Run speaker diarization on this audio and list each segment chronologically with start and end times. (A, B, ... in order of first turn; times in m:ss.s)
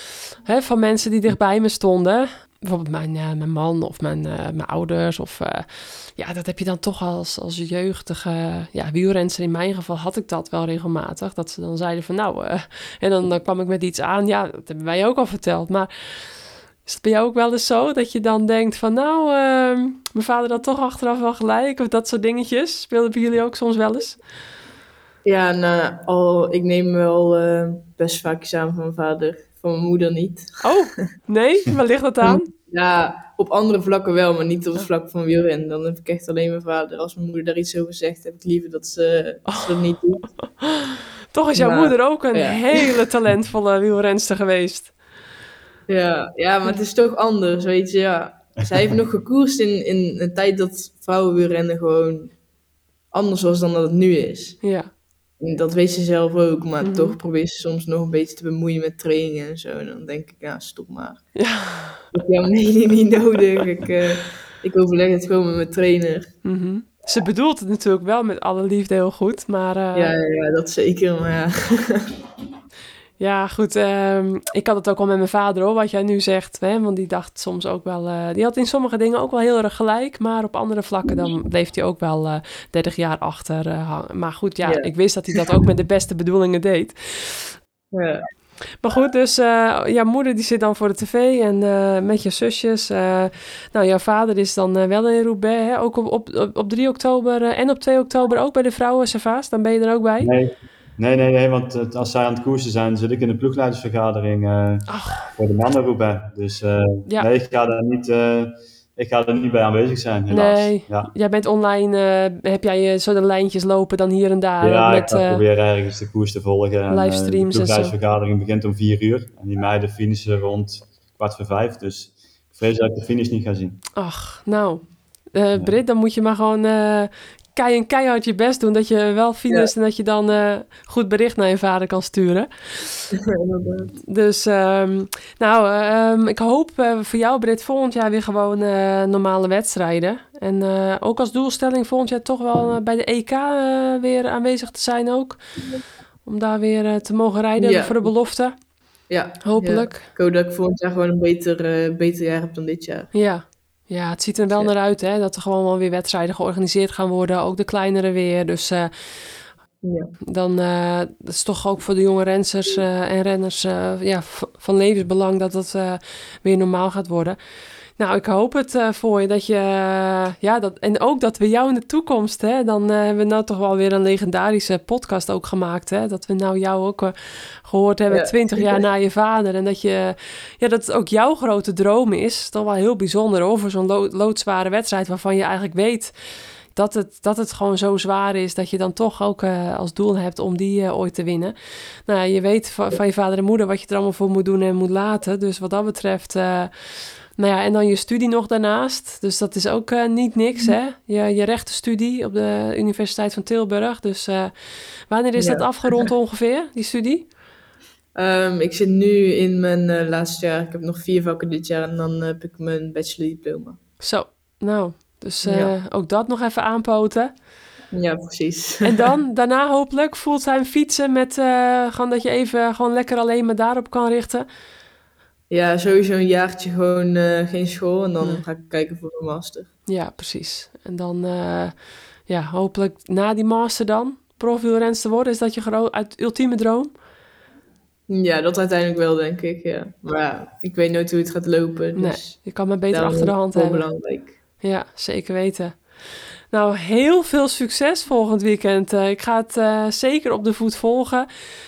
0:00.4-0:15.9 A
0:16.8-0:24.2 A
0:25.2-0:30.6 B
0:30.6-0:32.5 A
0:32.2-0:40.3 B
0:39.5-0:39.9 A
0:40.6-0:44.9 A
0:41.6-0:43.0 B
0:45.9-0:52.3 B
0:53.1-0:54.6 B
0:54.6-0:54.9 A
0:55.4-1:01.2 B
0:56.8-0:57.2 A
1:01.3-1:02.1 A
1:02.1-1:06.3 B
1:06.4-1:10.1 A
1:09.9-1:12.2 B
1:13.2-1:27.5 A
1:24.6-1:25.4 B
1:27.9-1:28.3 B
1:28.8-1:40.3 A
1:40.2-1:51.1 C
1:44.9-1:45.3 A
1:50.3-1:55.4 A
1:54.6-2:03.8 C
1:56.9-1:57.9 A
2:04.0-2:04.8 A
2:05.3-2:13.1 A
2:13.1-2:14.0 B
2:14.1-2:25.4 A
2:26.2-2:28.6 A
2:27.6-2:28.1 B
2:29.1-2:33.1 B
2:29.4-2:30.0 A
2:33.1-2:38.9 A
2:39.8-2:40.1 B
2:40.3-2:47.4 A
2:48.0-3:06.1 A
2:58.1-2:58.8 B
3:06.7-3:11.5 A
3:12.1-3:16.7 A
3:17.4-3:24.5 A
3:25.1-3:27.3 A
3:25.4-3:26.0 B
3:28.1-3:33.8 B
3:34.0-3:37.3 A
3:35.4-3:35.7 B
3:37.9-3:39.0 B
3:38.8-3:44.4 A
3:45.5-3:49.7 B
3:49.9-3:51.7 A
3:52.3-3:56.9 A
3:58.1-4:04.3 B
4:02.0-4:03.9 A
4:04.6-4:06.0 A
4:06.5-4:11.3 A